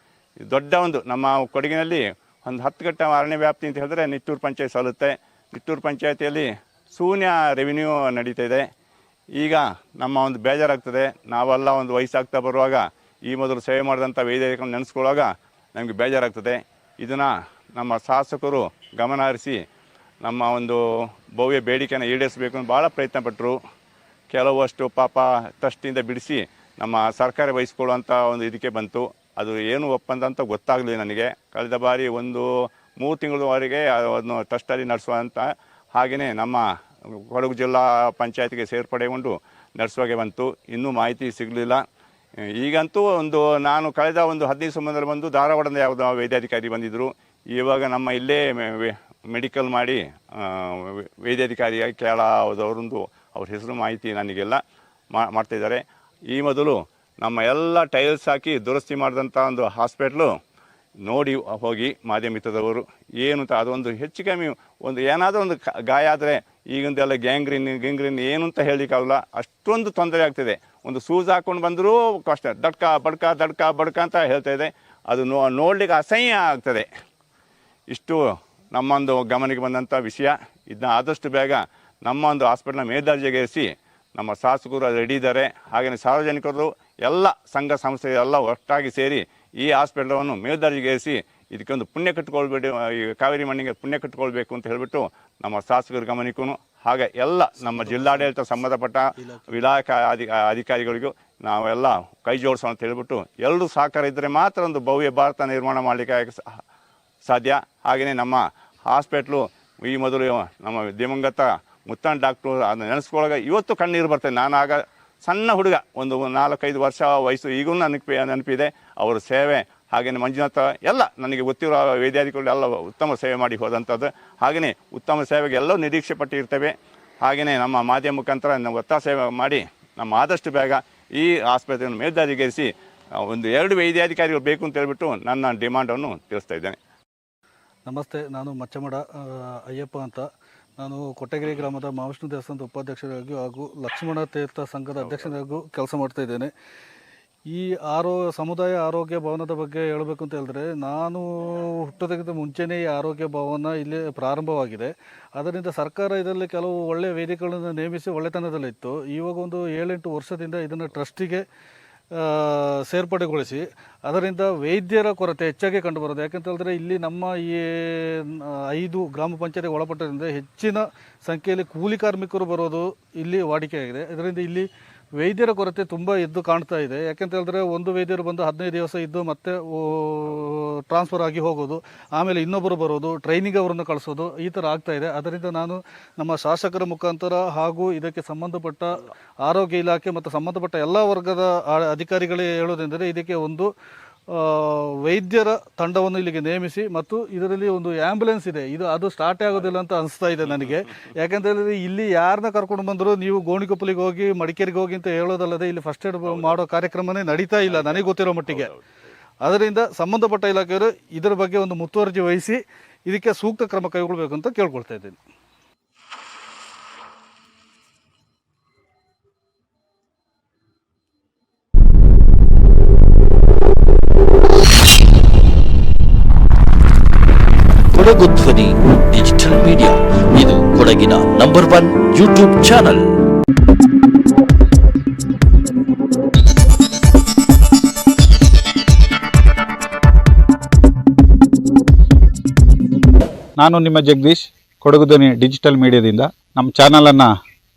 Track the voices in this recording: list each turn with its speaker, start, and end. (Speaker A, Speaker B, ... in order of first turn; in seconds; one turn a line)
Speaker A: 0.4-8.7
Speaker A: 9.4-19.6
Speaker A: 20.2-20.8
Speaker A: 21.4-23.6
Speaker A: 24.3-32.5
Speaker A: 33.0-36.6
Speaker A: 37.3-41.8
Speaker A: 42.6-54.6
Speaker A: 55.1-60.3
Speaker A: 61.0-76.9
Speaker A: 77.9-78.2
Speaker A: 78.7-106.4
Speaker B: 97.7-98.2
Speaker A: 107.3-126.7
Speaker A: 127.2-132.7
Speaker A: 133.2-136.8
Speaker B: 137.9-140.3
Speaker B: 140.8-146.5
Speaker A: 145.0-145.3
Speaker B: 147.5-161.4
Speaker B: 162.1-193.7
Speaker B: 194.3-208.7
Speaker A: 207.7-208.0
Speaker B: 209.4-215.2
Speaker C: 227.9-233.1
Speaker D: 243.6-247.3